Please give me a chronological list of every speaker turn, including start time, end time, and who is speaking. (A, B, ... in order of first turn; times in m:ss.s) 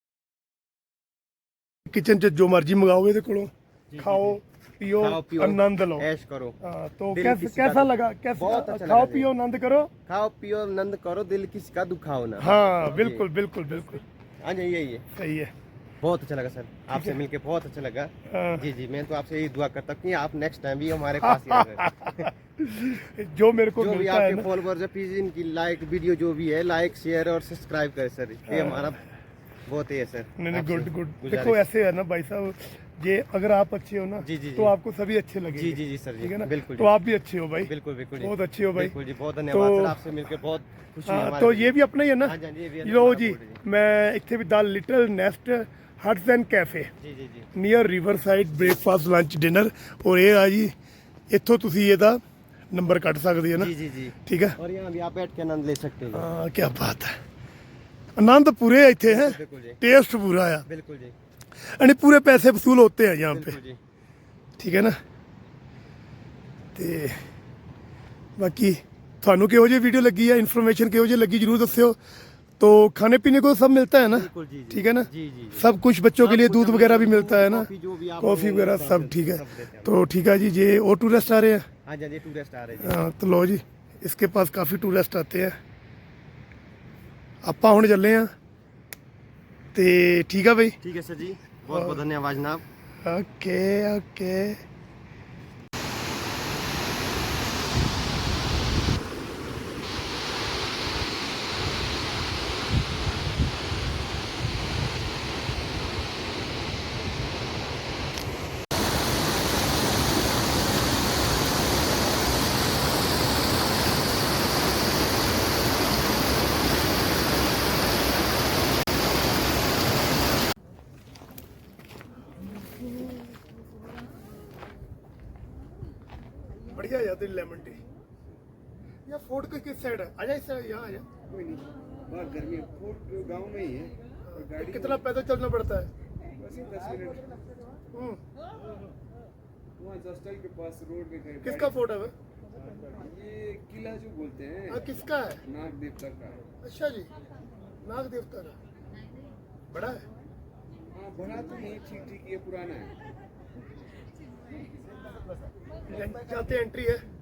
0:01.9-0:06.1 A
0:03.9-0:04.4 B
0:05.0-0:06.6 B
0:06.6-0:09.9 A
0:07.1-0:09.3 B
0:10.1-0:13.2 B
0:12.4-0:14.0 A
0:14.4-0:15.0 B
0:15.1-0:15.5 A
0:16.0-0:22.3 B
0:18.3-0:18.6 A
0:21.2-0:24.5 A
0:23.8-0:29.0 B
0:28.5-0:28.9 A
0:29.7-0:31.6 B
0:30.4-0:38.9 A
0:34.2-0:34.7 B
0:35.6-0:36.9 B
0:37.6-0:43.6 B
0:39.5-0:40.0 A
0:41.1-0:46.9 A
0:47.0-0:47.5 B
0:47.5-0:50.7 A
0:51.3-0:52.2 A
0:52.7-0:53.7 A
0:53.6-0:56.3 B
0:54.2-0:54.6 A
0:56.1-0:57.1 A
0:58.2-1:00.6 A
0:59.1-0:59.8 B
1:00.6-1:01.1 B
1:01.8-1:03.6 A
1:03.3-1:03.8 B
1:04.6-1:05.0 A
1:06.8-1:07.2 A
1:08.4-1:12.0 A
1:12.6-1:17.7 A
1:14.1-1:15.7 B
1:16.2-1:20.0 B
1:18.2-1:21.6 A
1:21.8-1:23.0 B
1:22.8-1:25.6 A
1:27.4-1:28.3 A
1:29.7-1:30.8 A
1:30.8-1:32.6 B
1:33.1-1:34.6 A
2:06.7-2:07.8 A
2:09.1-2:11.1 A
2:11.3-2:15.0 C
2:14.3-2:15.9 A
2:16.4-2:17.7 C
2:17.9-2:18.2 A
2:19.8-2:21.9 C
2:21.4-2:22.1 A
2:22.9-2:26.4 C
2:24.7-2:25.4 A
2:26.6-2:27.1 A
2:27.8-2:28.6 A
2:29.7-2:30.0 A
2:30.9-2:32.9 C
2:34.9-2:35.2 C
2:35.9-2:37.0 A